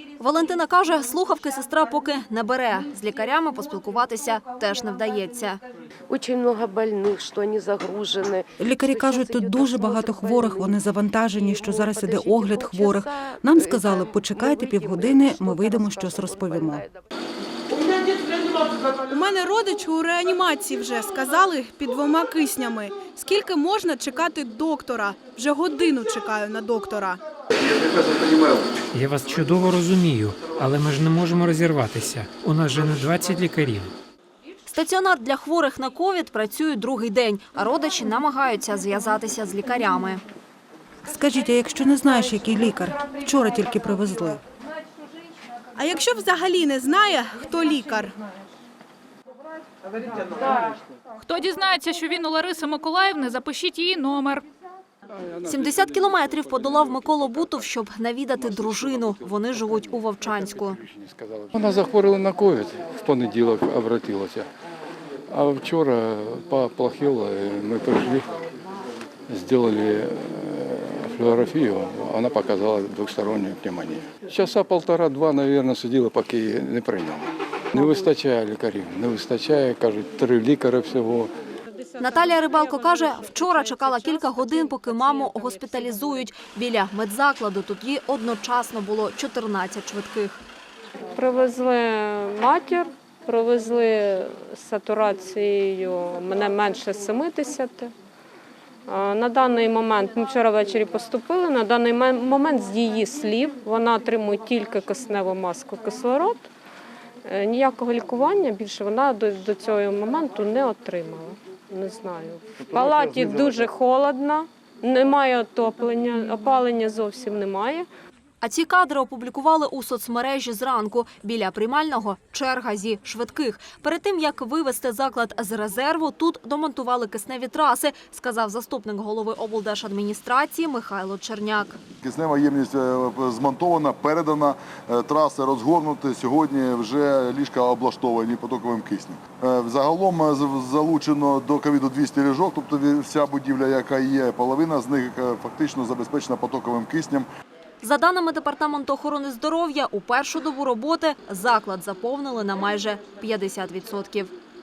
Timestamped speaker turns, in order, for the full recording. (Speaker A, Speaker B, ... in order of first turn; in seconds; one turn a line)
Speaker A: 0.2-5.6
Speaker B: 6.1-17.0
Speaker C: 8.6-16.8
Speaker D: 19.1-27.2
Speaker E: 27.8-28.3
Speaker F: 28.9-33.9
Speaker A: 34.7-40.2
Speaker C: 41.0-44.4
Speaker D: 45.7-48.1
Speaker G: 51.2-54.5
Speaker H: 55.1-57.0
Speaker A: 55.5-60.8
Speaker H: 58.4-64.5
Speaker H: 65.3-68.3
Speaker H: 69.3-81.3
Speaker I: 81.7-86.1
Speaker A: 82.0-90.4
Speaker I: 91.1-97.9
Speaker I: 98.9-106.5
Speaker I: 107.2-117.9
Speaker A: 118.4-131.8
Speaker E: 132.0-147.3
Speaker A: 147.8-154.3